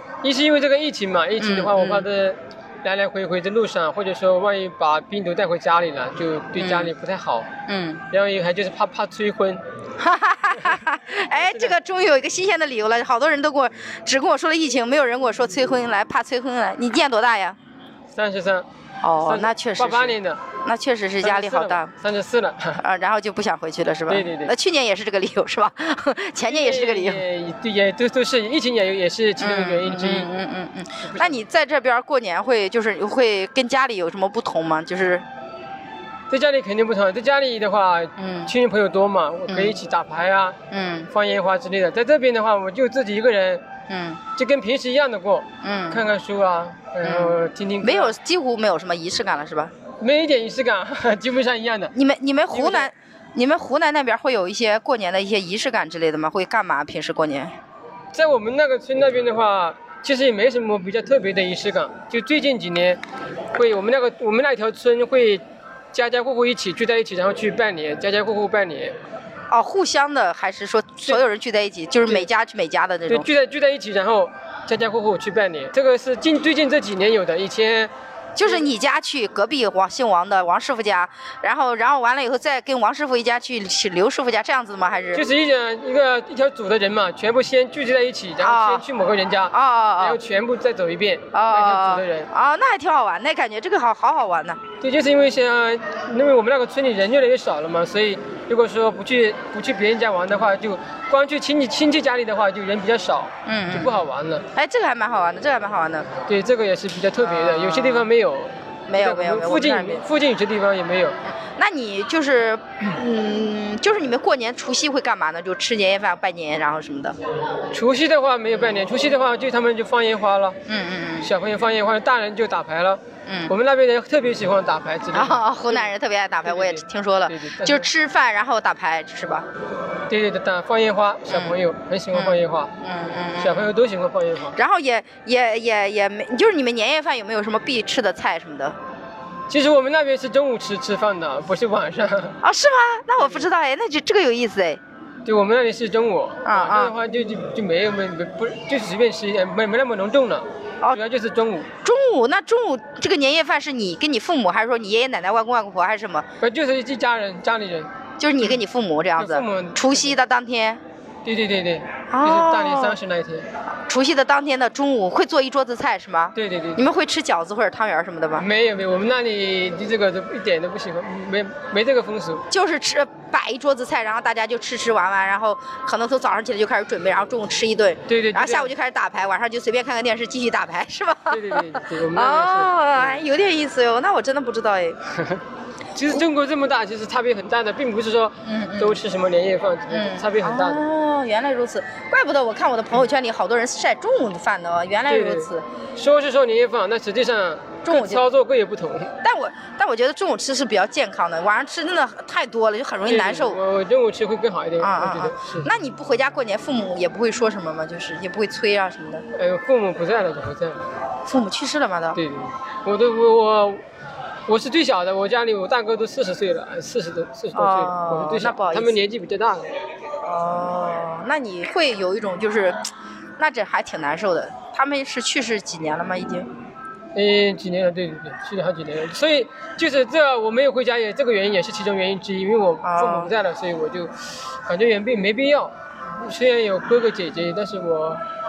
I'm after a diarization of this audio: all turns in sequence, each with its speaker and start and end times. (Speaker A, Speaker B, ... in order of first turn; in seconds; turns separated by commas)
Speaker A: 0.2-7.5, Speaker B: 1.4-2.1, Speaker B: 6.6-6.9, Speaker B: 7.7-8.1, Speaker A: 8.1-9.6, Speaker B: 10.0-17.6, Speaker A: 11.3-11.8, Speaker A: 18.1-18.7, Speaker B: 19.0-21.9, Speaker A: 19.2-20.4, Speaker A: 21.2-22.8, Speaker B: 22.8-27.2, Speaker A: 24.1-24.5, Speaker A: 26.5-30.3, Speaker B: 29.4-35.2, Speaker A: 31.1-31.4, Speaker A: 36.3-40.6, Speaker B: 38.2-38.5, Speaker B: 39.5-39.8, Speaker B: 40.7-41.1, Speaker A: 41.1-43.6, Speaker B: 43.9-44.2, Speaker A: 44.4-48.1, Speaker B: 45.6-46.1, Speaker B: 47.0-49.7, Speaker A: 50.0-51.9, Speaker B: 51.9-57.5, Speaker A: 52.5-52.9, Speaker A: 58.1-63.0, Speaker A: 63.5-69.0, Speaker B: 69.5-73.3, Speaker A: 73.1-77.9, Speaker B: 78.4-85.3, Speaker A: 85.1-92.3, Speaker B: 88.4-88.9, Speaker B: 89.5-90.2, Speaker B: 91.3-94.6, Speaker A: 94.8-104.5, Speaker B: 103.5-104.0, Speaker B: 104.5-106.1, Speaker A: 106.3-111.2, Speaker B: 107.2-108.1, Speaker B: 108.9-110.1, Speaker B: 111.3-117.2, Speaker A: 117.6-120.6, Speaker B: 120.7-121.3, Speaker A: 121.2-125.9, Speaker B: 123.3-123.5, Speaker B: 125.1-129.5, Speaker A: 126.4-127.9, Speaker A: 130.1-132.7, Speaker B: 131.3-133.7, Speaker A: 133.4-134.6, Speaker B: 134.6-138.8, Speaker A: 139.5-142.4, Speaker B: 142.4-144.8, Speaker A: 143.2-143.5, Speaker A: 145.2-151.7, Speaker B: 146.4-146.9, Speaker B: 151.8-156.3, Speaker A: 156.4-157.9, Speaker B: 158.2-160.8, Speaker A: 159.2-160.2, Speaker A: 161.2-163.5, Speaker B: 162.1-163.0, Speaker B: 163.9-168.5, Speaker A: 166.3-166.9, Speaker A: 168.4-172.4, Speaker B: 172.5-185.0, Speaker A: 178.1-178.7, Speaker A: 181.3-183.2, Speaker A: 185.9-190.8, Speaker B: 188.4-189.0, Speaker B: 189.9-195.7, Speaker A: 195.1-199.2, Speaker B: 197.8-198.2, Speaker B: 199.2-203.6, Speaker A: 203.0-205.7, Speaker B: 204.8-209.2, Speaker A: 209.3-210.9, Speaker B: 211.2-212.2, Speaker A: 212.2-213.8, Speaker A: 214.5-219.7, Speaker B: 217.5-219.0, Speaker B: 220.2-226.5, Speaker A: 227.2-238.2, Speaker B: 232.8-233.3